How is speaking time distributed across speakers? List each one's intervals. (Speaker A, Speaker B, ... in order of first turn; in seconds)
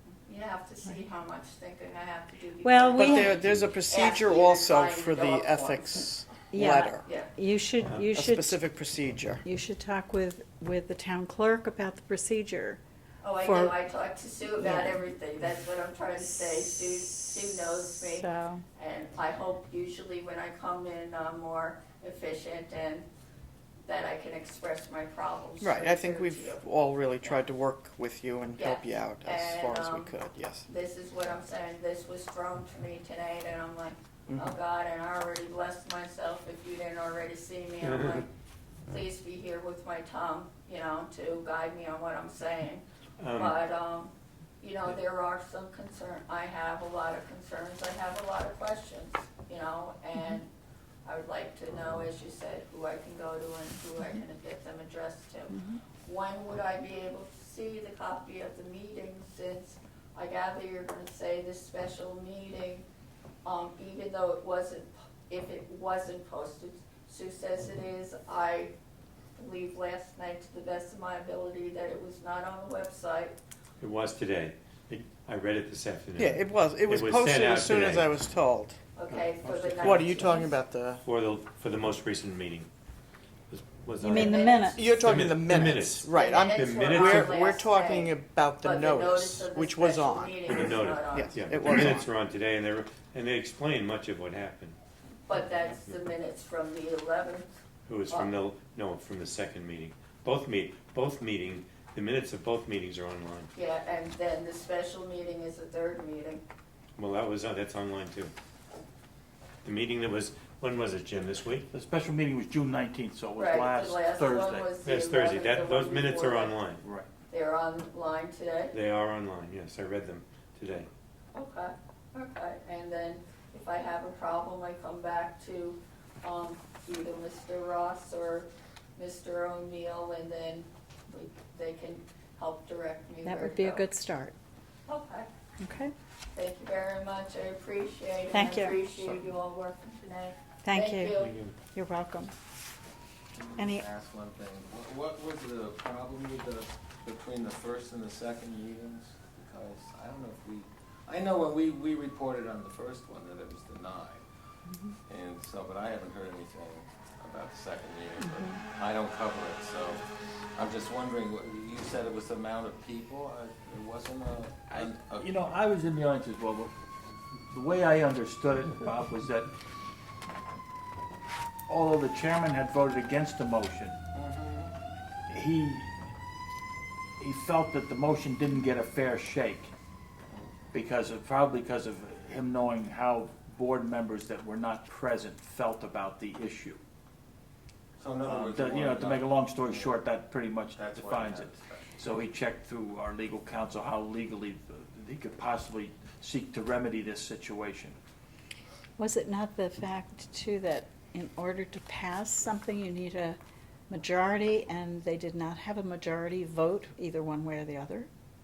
Speaker A: 0.2-6.1, 7.0-7.3, 13.2-23.1, 23.8-26.6, 28.6-30.1, 30.6-38.3, 38.9-42.8, 43.4-50.5, 51.0-62.9, 63.4-68.7, 69.4-73.4, 79.0-80.6, 84.1-84.7, 86.1-91.3, 95.3-97.5, 103.5-106.4, 113.3-116.6, 117.3-118.8, 121.3-133.9, 134.9-135.3, 136.3-141.3
Speaker B: 2.6-3.5, 6.5-8.6, 9.4-12.8, 13.4-13.8, 14.6-15.0, 18.0-18.6, 55.5-55.8, 84.0-84.9, 133.2-134.3, 135.6-135.9, 138.3-139.1, 140.6-142.3, 143.6-143.9, 154.7-154.9, 158.2-158.6, 199.0-203.4, 203.9-208.1
Speaker C: 3.0-7.0, 8.1-9.4, 25.6-30.6, 76.2-78.8, 79.8-81.0, 84.4-92.1
Speaker D: 37.8-38.2, 43.2-43.5, 73.8-78.1, 79.1-80.3, 81.0-82.7, 83.5-87.3, 90.5-94.8, 97.9-103.5, 107.0-108.3, 109.6-111.7, 114.8-116.8, 118.7-120.9, 141.2-141.6
Speaker E: 111.7-114.7, 116.8-117.1, 164.7-166.7, 167.5-169.5, 171.7-174.0, 175.3-175.9, 177.2-179.7, 180.7-186.8, 188.2-198.0
Speaker F: 143.3-154.2, 155.1-165.3, 174.1-174.7, 188.0-190.0, 190.8-191.9